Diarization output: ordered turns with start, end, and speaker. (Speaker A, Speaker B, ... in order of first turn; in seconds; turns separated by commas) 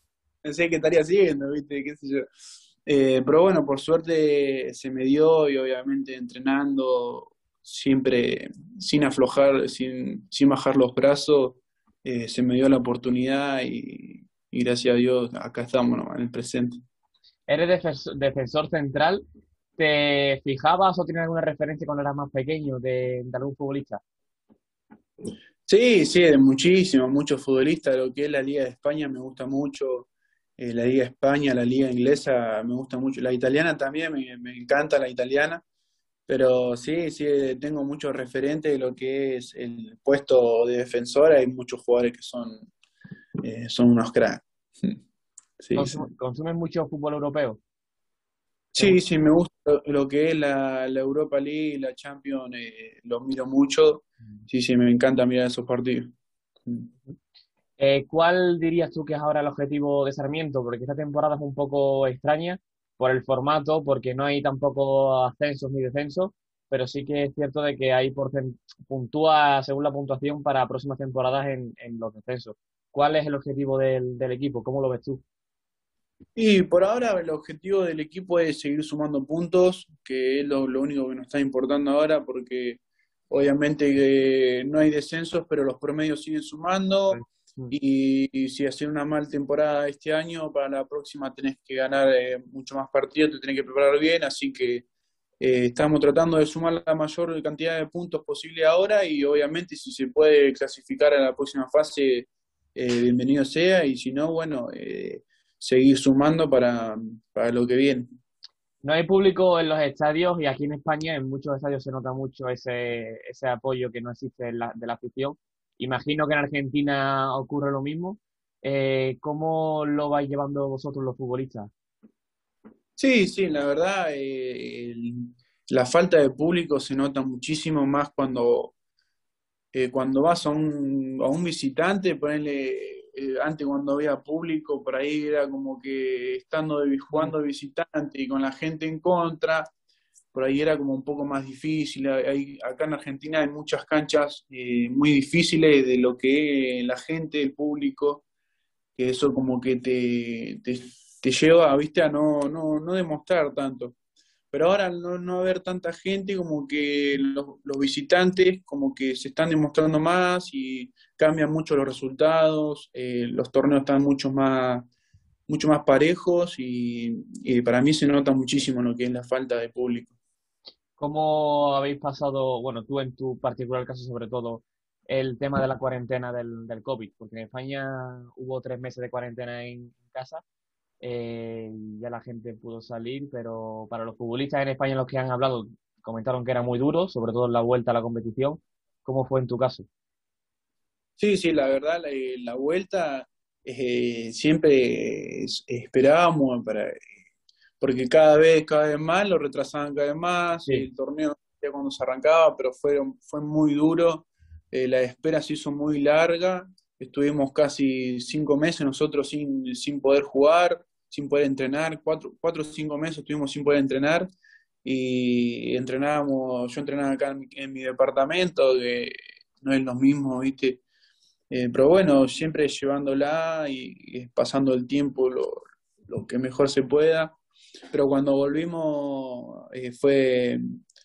Speaker A: 0.4-2.2, Speaker A: 2.9-16.8, Speaker B: 17.5-19.2, Speaker B: 19.8-24.0, Speaker A: 25.7-35.6, Speaker A: 36.3-42.7, Speaker A: 43.4-45.0, Speaker A: 45.6-46.0, Speaker B: 45.8-47.6, Speaker A: 48.7-56.1, Speaker B: 57.8-75.2, Speaker A: 76.3-87.2, Speaker B: 87.1-87.8, Speaker A: 87.7-94.8, Speaker A: 95.4-108.1, Speaker B: 108.8-121.7, Speaker A: 123.0-128.7, Speaker A: 129.7-139.7, Speaker B: 137.1-137.3, Speaker A: 140.3-148.2, Speaker A: 149.0-153.9, Speaker A: 154.5-164.9, Speaker A: 165.5-170.1, Speaker B: 171.0-180.4, Speaker B: 181.0-189.9, Speaker A: 191.2-197.0, Speaker A: 197.8-214.3, Speaker A: 214.8-220.8, Speaker A: 221.5-227.4, Speaker A: 227.9-230.6